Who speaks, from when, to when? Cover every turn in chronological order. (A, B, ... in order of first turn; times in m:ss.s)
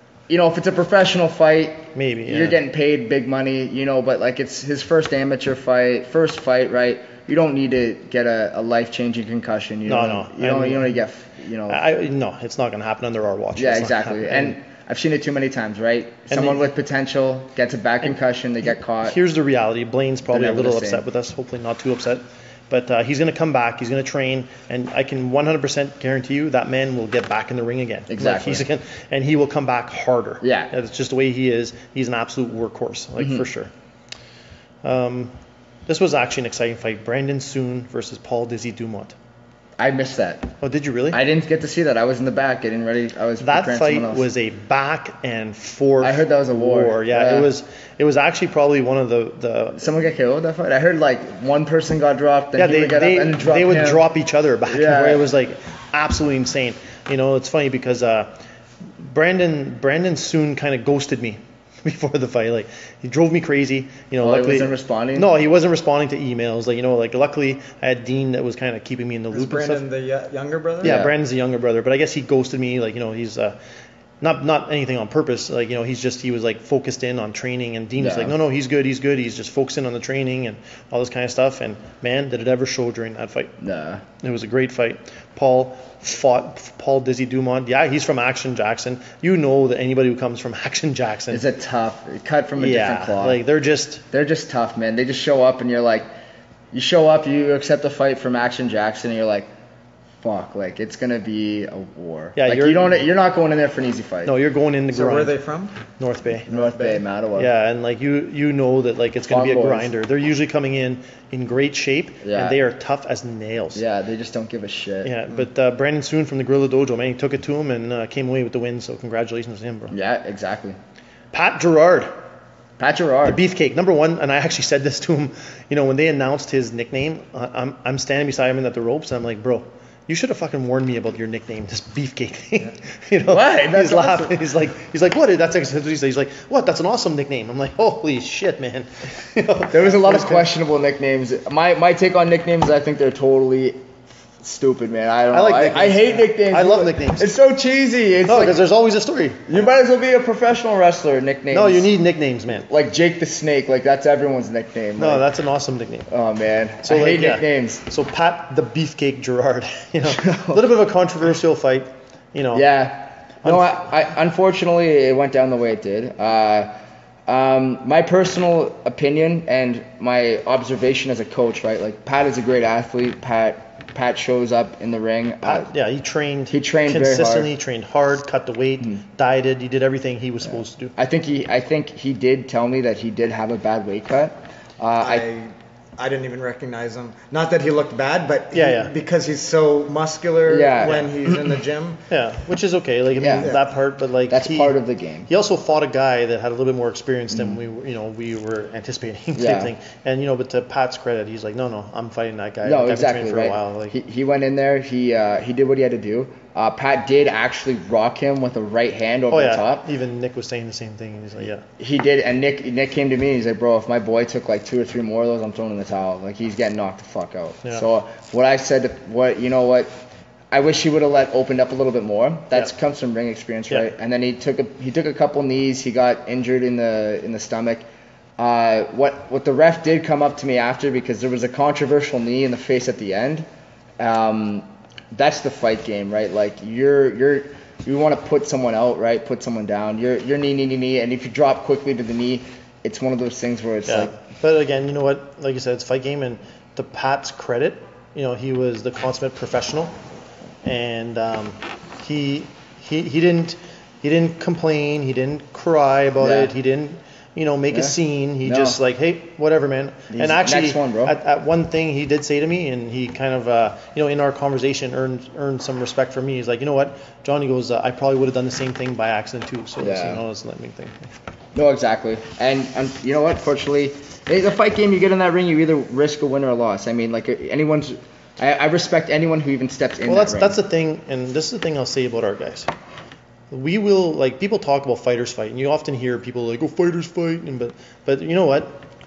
0:00.3-0:11.8 A
0:01.9-0:02.6 B
0:09.8-0:10.9 B
0:11.7-0:14.6 B
0:13.6-0:19.2 A
0:16.3-0:16.6 B
0:19.0-0:33.7 B
0:20.3-0:21.0 A
0:28.1-0:28.7 A
0:30.4-0:30.7 A
0:33.2-0:33.5 A
0:34.8-0:35.3 B
0:35.9-0:39.1 B
0:39.8-0:40.5 A
0:40.6-0:41.2 B
0:41.1-0:44.3 A
0:43.4-0:49.9 B
0:46.0-0:47.5 A
0:49.8-0:54.0 A
0:52.6-0:58.4 B
0:54.6-0:55.3 A
0:59.0-1:09.8 B
1:04.2-1:05.3 A
1:09.3-1:11.0 C
1:10.8-1:11.1 A
1:10.8-1:13.6 B
1:14.2-1:23.5 B
1:18.0-1:18.4 A
1:23.6-1:24.0 A
1:24.2-1:31.4 B
1:31.3-1:33.4 A
1:32.6-1:34.0 B
1:34.1-1:36.1 A
1:36.7-1:39.5 A
1:40.2-1:44.3 A
1:42.4-1:43.0 B
1:44.2-1:45.3 B
1:44.9-1:45.7 C
1:46.0-1:46.5 B
1:46.5-1:47.5 A
1:46.5-1:47.0 C
1:47.4-1:53.8 B
1:49.2-1:49.9 A
1:52.2-1:52.6 A
1:53.7-1:55.1 A
1:55.0-1:59.9 B
1:59.9-2:00.8 A
2:01.3-2:02.1 B
2:02.8-2:03.4 A
2:03.2-2:20.5 B
2:13.3-2:14.4 A
2:19.7-2:23.8 A
2:24.4-2:28.6 A
2:25.3-2:27.3 B
2:28.2-2:29.4 B
2:29.5-2:31.9 A
2:31.5-2:32.7 B
2:32.6-2:35.3 A
2:35.0-2:36.1 B
2:36.1-2:37.8 A
2:36.8-2:42.6 B
2:40.0-2:40.6 A
2:42.5-2:46.7 A
2:43.4-2:43.8 B
2:47.3-2:55.7 A
2:55.4-3:00.9 B
2:56.5-2:57.5 A
3:01.0-3:05.3 A
3:05.0-3:12.0 C
3:08.5-3:08.9 B
3:10.4-3:11.5 A
3:12.1-3:14.8 B
3:13.2-3:13.6 A
3:14.3-3:15.3 A
3:15.3-3:23.9 B
3:17.3-3:17.6 A
3:19.4-3:19.7 A
3:22.6-3:29.8 A
3:29.3-3:31.6 B
3:31.8-3:39.9 A
3:40.5-3:47.9 A
3:48.4-3:53.5 A
3:54.0-4:04.1 A
4:03.8-4:09.9 B
4:10.6-4:31.1 B
4:16.2-4:16.5 A
4:17.7-4:18.8 A
4:20.1-4:21.2 A
4:29.8-4:30.2 A
4:31.5-4:40.6 A
4:40.0-4:42.7 B
4:43.5-4:48.8 B